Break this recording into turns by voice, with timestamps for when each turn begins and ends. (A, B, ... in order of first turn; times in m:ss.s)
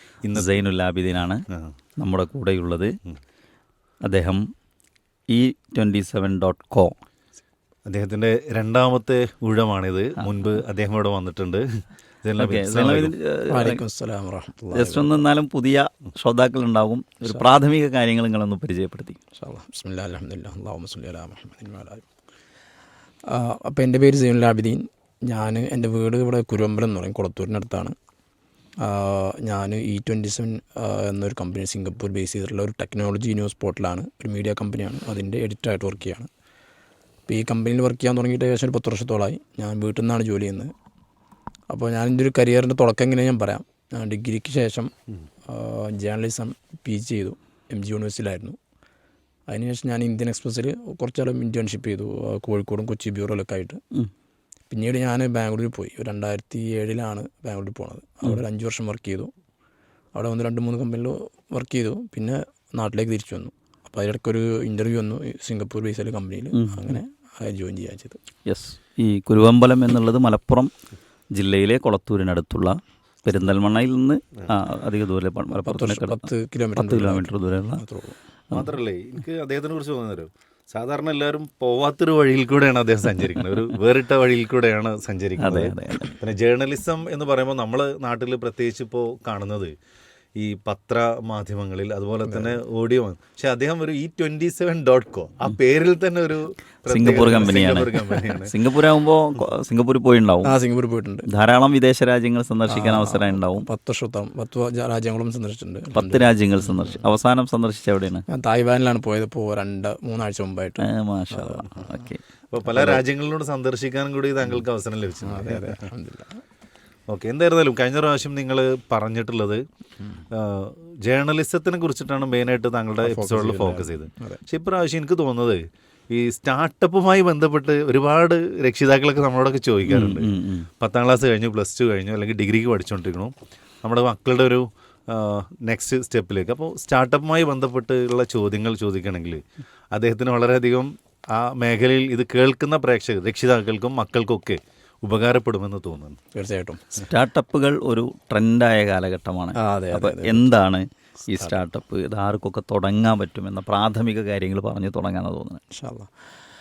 0:00.2-0:00.6 A
0:00.4-0:01.4 B
0:02.0-0:03.0 B
0:04.0-0:04.4 B
0:05.3-0:07.0 B
0:07.9-0:13.1 A
0:12.4-0:13.8 B
0:13.5-0:15.2 C
0:14.7-0:19.2 B
0:19.4-0:22.0 C
0:23.3-0:28.0 C
0:28.8-0:36.3 C
0:37.3-0:40.7 C
0:41.7-0:44.9 C
0:45.5-0:48.6 C
0:49.5-0:53.8 C
0:54.7-0:59.3 C
1:00.1-1:08.2 C
1:06.5-1:07.0 B
1:08.5-1:10.7 B
1:11.3-1:17.8 B
1:15.6-1:18.2 C
1:18.5-1:29.7 A
1:25.4-1:26.1 B
1:30.4-1:38.6 A
1:32.3-1:32.6 C
1:36.9-1:40.6 B
1:40.4-1:41.3 C
1:41.3-1:43.7 B
1:42.7-1:47.0 C
1:45.9-1:48.2 B
1:48.3-1:52.1 C
1:50.8-1:52.2 B
1:52.5-1:55.8 A
1:55.2-1:56.4 C
1:57.1-1:59.6 A
2:00.3-2:26.2 A
2:03.0-2:04.4 C
2:09.9-2:10.7 B
2:26.3-2:27.0 C
2:27.0-2:35.6 B
2:29.6-2:30.5 C
2:35.7-2:36.1 C